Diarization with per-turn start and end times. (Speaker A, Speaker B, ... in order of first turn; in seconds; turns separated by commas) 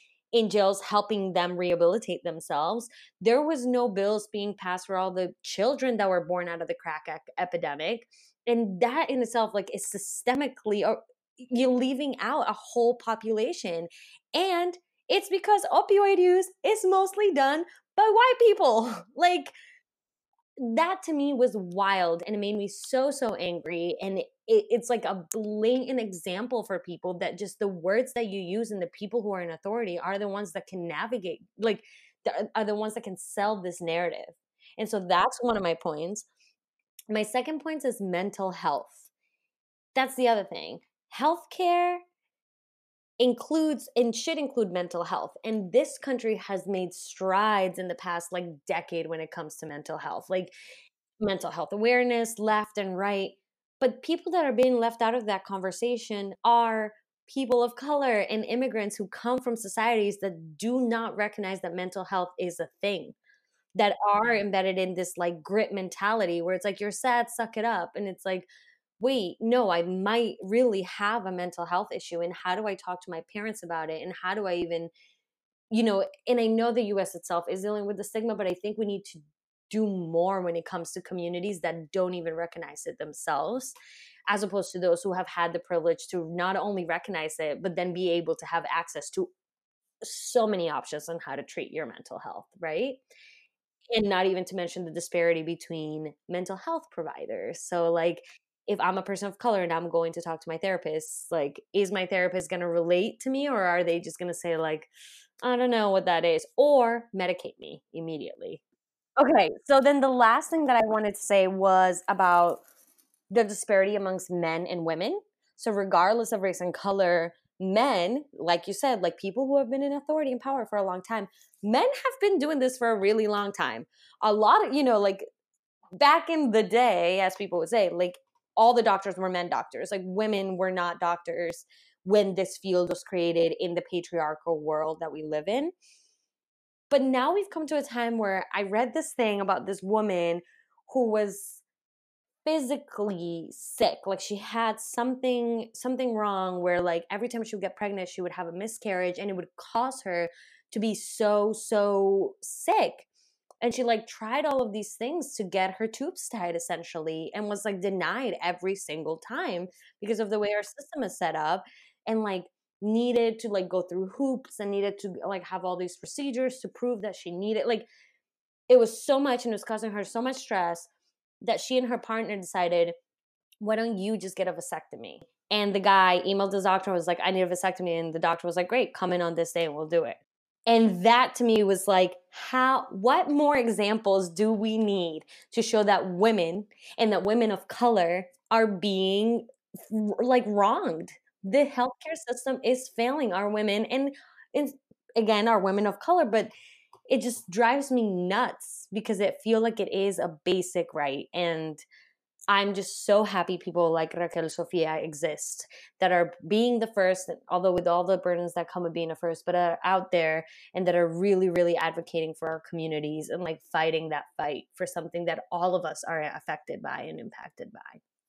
Speaker A: 0.3-19.5, Speaker A: 20.6-36.2, Speaker A: 37.1-39.1, Speaker A: 39.9-42.0, Speaker A: 43.2-50.5, Speaker A: 51.2-63.1, Speaker A: 63.8-68.5, Speaker A: 69.0-74.9, Speaker A: 75.7-83.8, Speaker A: 84.3-89.3, Speaker A: 90.0-93.0, Speaker A: 93.9-104.9, Speaker A: 105.4-108.6, Speaker A: 109.2-112.6, Speaker A: 113.3-125.2, Speaker A: 126.0-135.7, Speaker A: 136.9-141.6, Speaker A: 142.4-153.1, Speaker A: 153.6-167.9, Speaker A: 168.7-170.9, Speaker A: 171.4-172.9, Speaker A: 173.6-196.5, Speaker A: 197.1-201.8, Speaker A: 202.5-218.0